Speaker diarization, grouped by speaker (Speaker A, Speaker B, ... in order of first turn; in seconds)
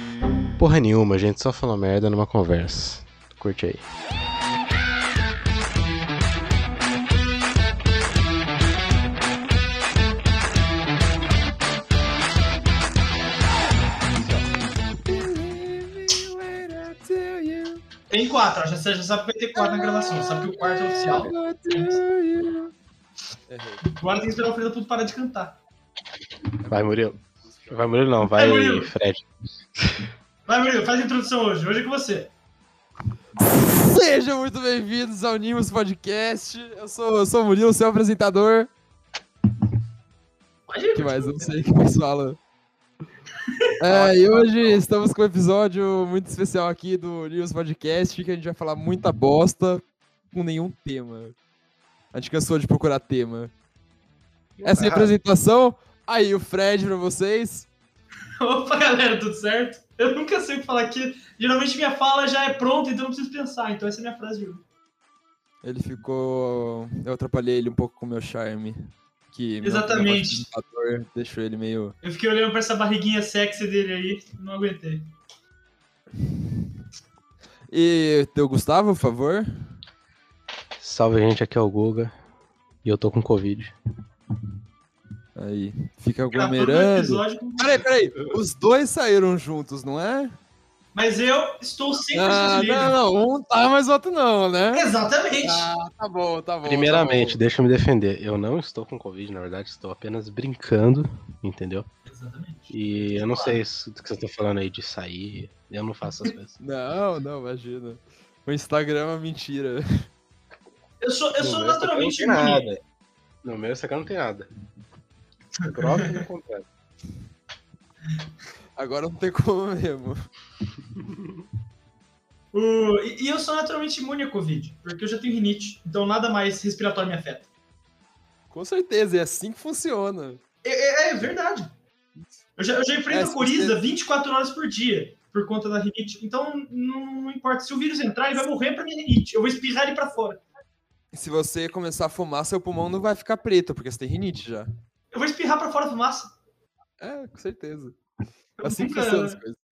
Speaker A: 0.6-3.8, 26.7-27.2, 27.7-29.2, 43.9-44.8, 54.6-55.1, 80.8-82.1, 82.8-83.7, 96.6-101.8, 102.7-106.5, 111.4-112.8, 113.4-114.5, 115.7-116.7
Speaker B: 14.1-14.5, 15.0-17.8, 19.6-22.7, 23.5-23.9, 26.6-27.8, 33.4-38.7, 40.9-42.4, 43.8-51.4, 52.1-53.5, 54.6-57.7, 65.6-71.9, 77.7-79.8, 85.3-90.3, 92.1-94.9, 95.4-97.4, 106.6-110.1, 118.8-120.3, 128.5-130.4, 133.1-133.8, 141.1-144.7, 147.0-148.0, 148.6-149.6
Speaker C: 18.1-22.0, 23.8-25.6, 28.2-28.9, 30.5-32.3, 40.7-41.5, 58.4-64.6, 69.6-70.5, 72.0-75.1, 86.3-87.8, 90.9-93.0, 94.7-95.7, 102.1-103.6, 111.0-112.6, 115.6-116.2, 122.5-127.5, 130.6-131.7, 132.6-140.4, 145.1-146.3, 148.6-149.4